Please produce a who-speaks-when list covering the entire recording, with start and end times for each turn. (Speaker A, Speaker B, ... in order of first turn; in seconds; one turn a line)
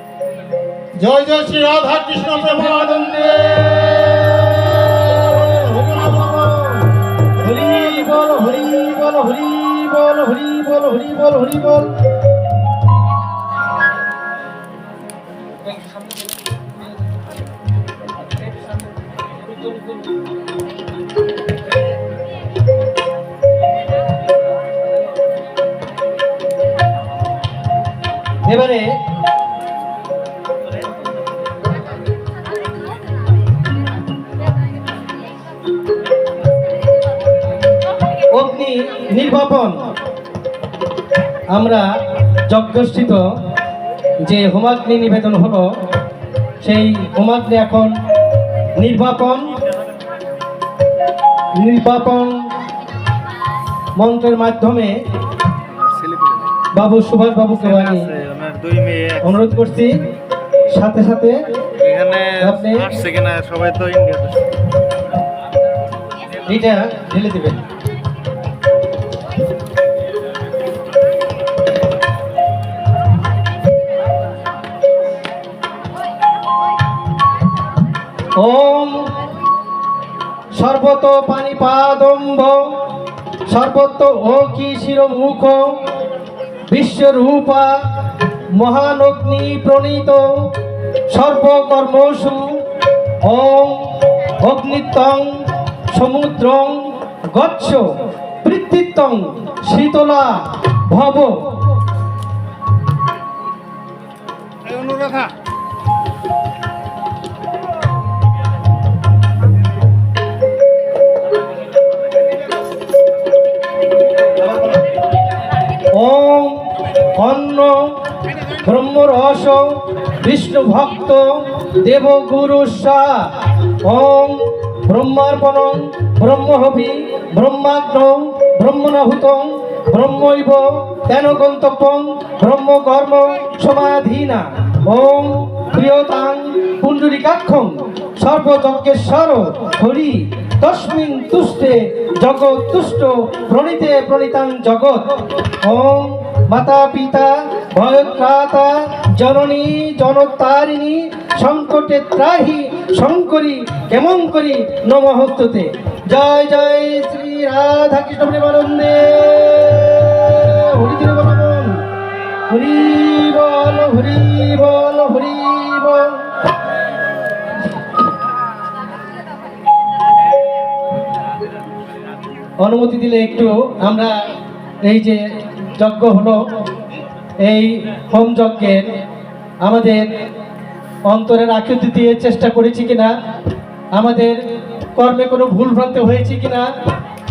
Speaker A: 0.9-2.4
Speaker B: 2.1-12.0
Speaker B: 15.7-16.1
Speaker B: 28.4-29.0
Speaker B: 38.3-39.8
Speaker B: 41.5-41.9
Speaker B: 42.5-43.3
Speaker B: 44.2-45.7
Speaker B: 46.6-47.9
Speaker B: 48.8-49.5
Speaker B: 51.5-52.4
Speaker B: 54.0-55.0
Speaker C: 55.8-56.5
Speaker B: 56.7-58.1
Speaker C: 57.6-59.4
Speaker B: 59.2-60.1
Speaker B: 60.7-61.5
Speaker C: 61.7-64.6
Speaker B: 62.4-63.0
Speaker B: 66.4-67.6
Speaker B: 78.3-79.1
Speaker B: 80.5-82.9
Speaker B: 83.5-85.8
Speaker B: 86.7-92.6
Speaker B: 93.2-101.6
Speaker A: 104.7-105.3
Speaker B: 115.9-161.8
Speaker B: 162.5-166.3
Speaker B: 172.6-174.1
Speaker B: 174.8-175.2
Speaker B: 175.8-176.4
Speaker B: 177.4-178.9
Speaker B: 179.6-180.1
Speaker B: 181.1-183.1
Speaker B: 183.9-184.4
Speaker B: 184.9-186.7